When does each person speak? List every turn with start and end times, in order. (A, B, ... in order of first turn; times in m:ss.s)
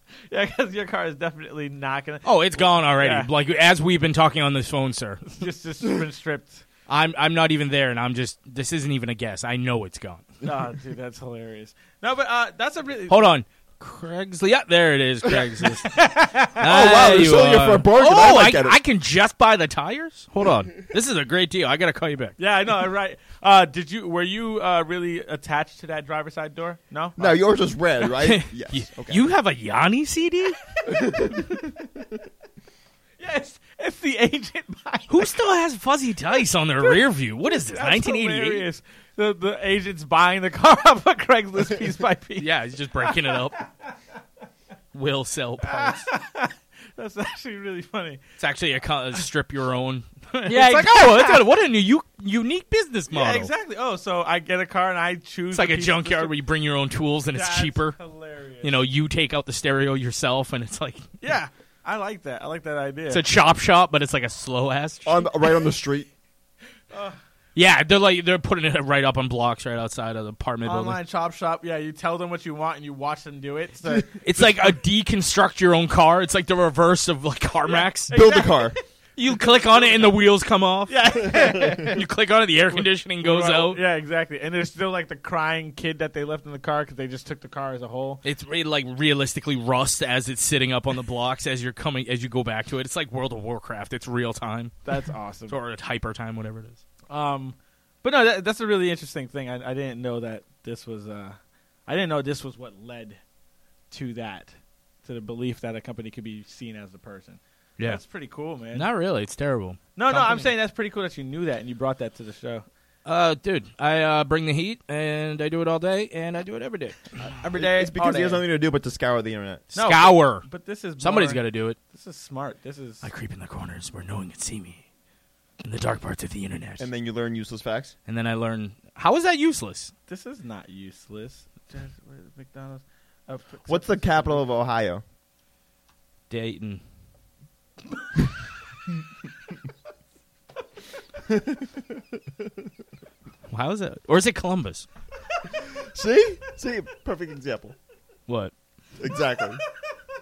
0:00.3-0:03.3 A
0:02.2-0:05.4 B
0:05.4-0:06.6 A
0:06.9-0:10.2 B
0:10.4-0:13.3 A
0:13.1-0:22.4 B
0:15.3-0:17.2 A
0:16.6-0:18.8 C
0:22.4-0:27.4 A
0:27.2-0:29.2 C
0:28.0-0:30.6 B
0:31.0-0:31.4 C
0:33.2-0:35.3 A
0:35.1-0:38.6 B
0:37.7-0:42.5 A
0:42.4-0:43.6 B
0:43.0-0:43.6 A
0:44.9-0:46.1 B
0:45.6-0:48.2 A
0:48.4-0:53.5 B
0:50.4-0:51.4 A
0:53.1-0:56.3 A
0:55.5-0:58.0 B
0:57.3-0:58.8 A
0:58.6-1:01.1 B
1:01.2-1:03.2 A
1:03.1-1:05.2 B
1:05.0-1:06.1 C
1:06.9-1:07.2 A
1:07.6-1:11.0 B
1:10.6-1:14.1 A
1:13.9-1:14.5 C
1:14.2-1:18.1 B
1:17.6-1:20.2 A
1:18.1-1:18.8 C
1:19.2-1:23.8 B
1:20.9-1:22.1 A
1:22.7-1:28.2 A
1:28.2-1:34.7 B
1:34.8-1:35.6 A
1:35.5-1:36.8 B
1:37.1-1:43.2 A
1:43.9-1:44.5 A
1:45.0-1:48.9 A
1:48.7-1:50.5 B
1:50.0-1:52.6 A
1:53.0-1:57.2 B
1:57.4-1:58.4 A
1:57.5-1:59.6 C
1:59.7-2:00.5 B
1:59.7-2:03.0 A
2:01.0-2:01.8 B
2:03.0-2:04.8 B
2:05.6-2:06.9 B
2:06.8-2:07.9 C
2:08.1-2:09.9 B
2:10.1-2:14.4 A
2:13.7-2:15.0 C
2:16.3-2:16.8 B
2:21.2-2:22.0 C
2:23.5-2:24.9 B
2:25.9-2:27.7 C
2:28.3-2:28.5 B
2:29.0-2:29.6 C